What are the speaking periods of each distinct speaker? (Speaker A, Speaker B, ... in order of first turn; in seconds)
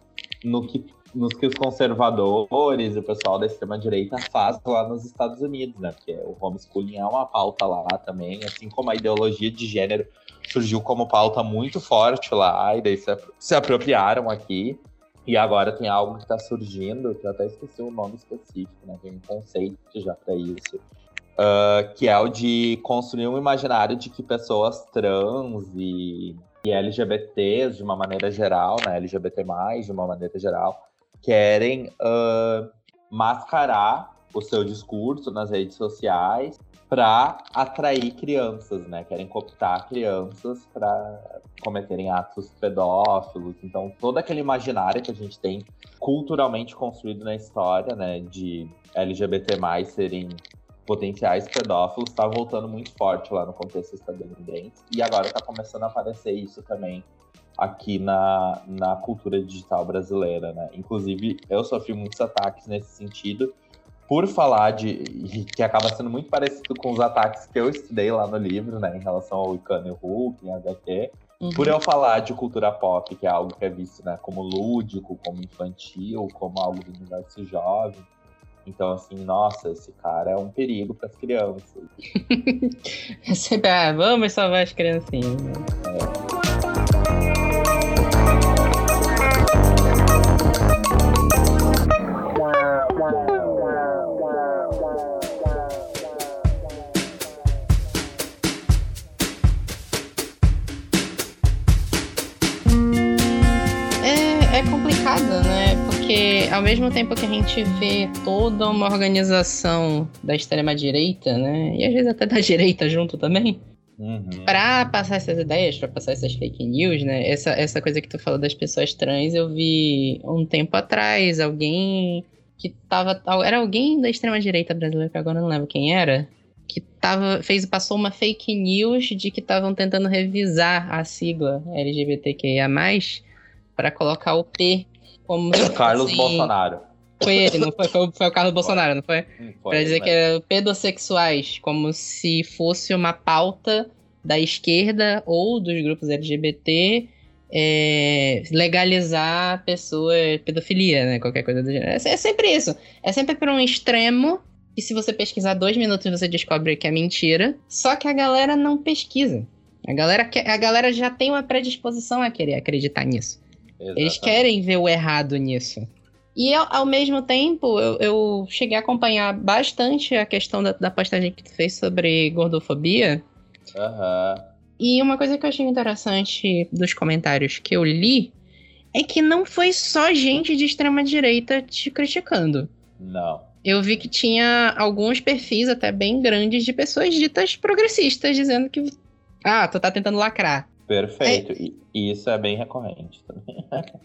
Speaker A: 0.4-20.8, 21.4-63.5, 64.1-78.1, 78.6-81.8, 85.8-86.2, 114.0-114.6, 135.5-137.7, 139.4-140.2, 163.8-164.5, 173.7-174.5, 183.0-184.1, 190.9-193.9
Speaker B: 71.4-71.8, 82.2-85.7, 104.0-113.6, 114.5-136.5, 137.2-163.4, 163.9-173.2, 174.8-178.3, 178.9-182.7, 183.6-188.9, 189.4-190.7